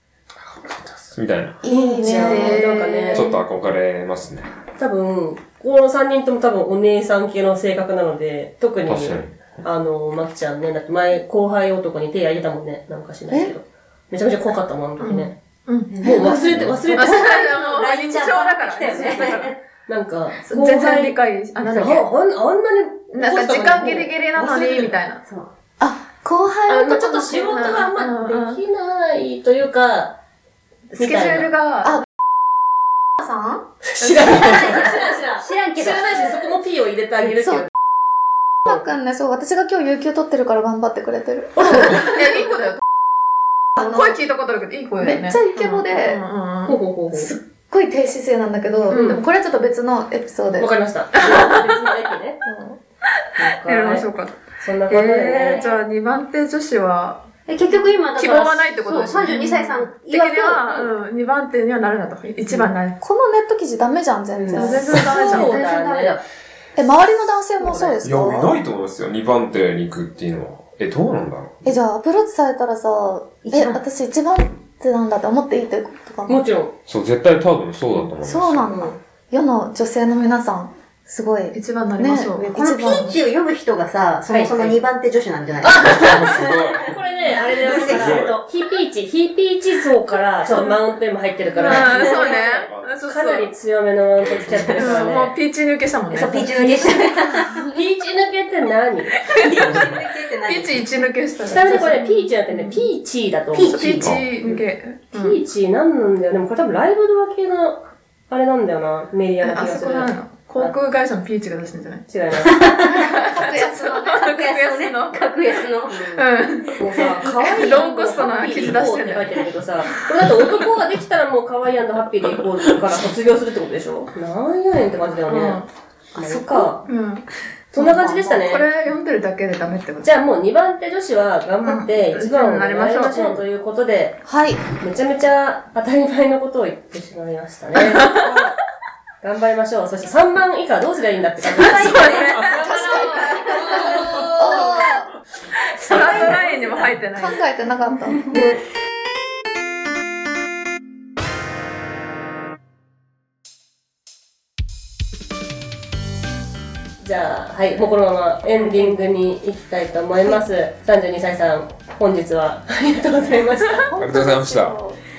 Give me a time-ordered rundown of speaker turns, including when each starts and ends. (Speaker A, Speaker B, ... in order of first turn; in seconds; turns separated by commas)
Speaker A: 0.4-1.6, Speaker B: 1.6-2.8, Speaker C: 1.6-3.3, Speaker D: 2.0-3.2, Speaker A: 3.1-4.5, Speaker C: 4.8-15.4, Speaker A: 8.9-9.6, Speaker D: 15.0-19.5, Speaker E: 15.9-19.5, Speaker C: 16.0-17.4, Speaker B: 16.1-16.4, Speaker A: 16.5-16.8, Speaker C: 19.9-24.9, Speaker D: 20.4-22.1, Speaker D: 23.1-25.2, Speaker B: 25.8-27.7, Speaker C: 26.7-30.1, Speaker D: 27.4-28.6, Speaker C: 30.9-31.5, Speaker D: 31.0-32.0, Speaker B: 33.2-33.6, Speaker C: 33.9-37.7, Speaker D: 34.0-35.0, Speaker E: 34.2-36.5, Speaker B: 38.6-42.3, Speaker C: 41.6-42.0, Speaker D: 41.7-42.8, Speaker B: 43.8-44.2, Speaker D: 43.8-46.8, Speaker B: 45.0-46.2, Speaker C: 46.6-47.3, Speaker B: 47.1-50.7, Speaker D: 48.9-49.2, Speaker C: 48.9-49.2, Speaker C: 50.6-52.4, Speaker D: 51.2-51.8, Speaker B: 52.4-52.8, Speaker C: 53.4-54.1, Speaker D: 53.4-63.0, Speaker C: 54.6-55.7, Speaker E: 57.5-60.9, Speaker B: 63.0-65.0, Speaker C: 64.3-66.2, Speaker D: 64.5-65.6, Speaker E: 64.6-66.2, Speaker B: 66.8-68.5, Speaker C: 67.6-67.9, Speaker A: 68.0-71.8, Speaker B: 71.6-76.4, Speaker E: 73.5-73.8, Speaker C: 76.3-76.7, Speaker A: 76.9-78.8, Speaker B: 78.2-83.2, Speaker C: 78.7-79.0, Speaker D: 81.5-83.1, Speaker E: 82.5-86.8, Speaker C: 84.3-84.8, Speaker A: 85.7-87.0, Speaker C: 86.8-95.3, Speaker E: 87.5-88.3, Speaker A: 87.7-88.4, Speaker D: 91.6-93.5, Speaker E: 91.6-92.1, Speaker A: 92.7-92.9, Speaker A: 94.2-94.8, Speaker E: 94.5-94.9, Speaker D: 94.7-97.7, Speaker E: 96.1-97.7, Speaker C: 97.7-99.2, Speaker D: 99.2-99.9, Speaker E: 99.3-101.0, Speaker D: 100.4-102.9, Speaker C: 101.4-110.8, Speaker E: 103.5-104.1, Speaker D: 103.6-105.4, Speaker D: 109.4-112.1, Speaker C: 112.1-112.8, Speaker E: 112.4-113.0, Speaker D: 112.8-115.2, Speaker B: 112.8-114.3, Speaker E: 114.1-116.2, Speaker D: 115.9-119.4, Speaker C: 116.8-125.6, Speaker E: 116.8-117.7, Speaker D: 125.3-125.7, Speaker E: 126.1-126.7, Speaker C: 126.2-126.9, Speaker D: 126.8-127.3, Speaker C: 127.7-128.7, Speaker D: 127.8-130.1, Speaker E: 127.8-128.3, Speaker C: 130.0-134.2, Speaker D: 131.6-133.4, Speaker B: 134.2-134.6, Speaker C: 134.8-138.4, Speaker D: 138.0-138.4, Speaker C: 139.2-144.8, Speaker E: 141.6-142.4, Speaker D: 141.6-144.5, Speaker B: 142.6-145.1, Speaker D: 145.8-147.4, Speaker C: 145.8-146.9, Speaker B: 147.1-148.3, Speaker C: 157.0-163.9, Speaker B: 163.9-165.0, Speaker A: 164.0-164.8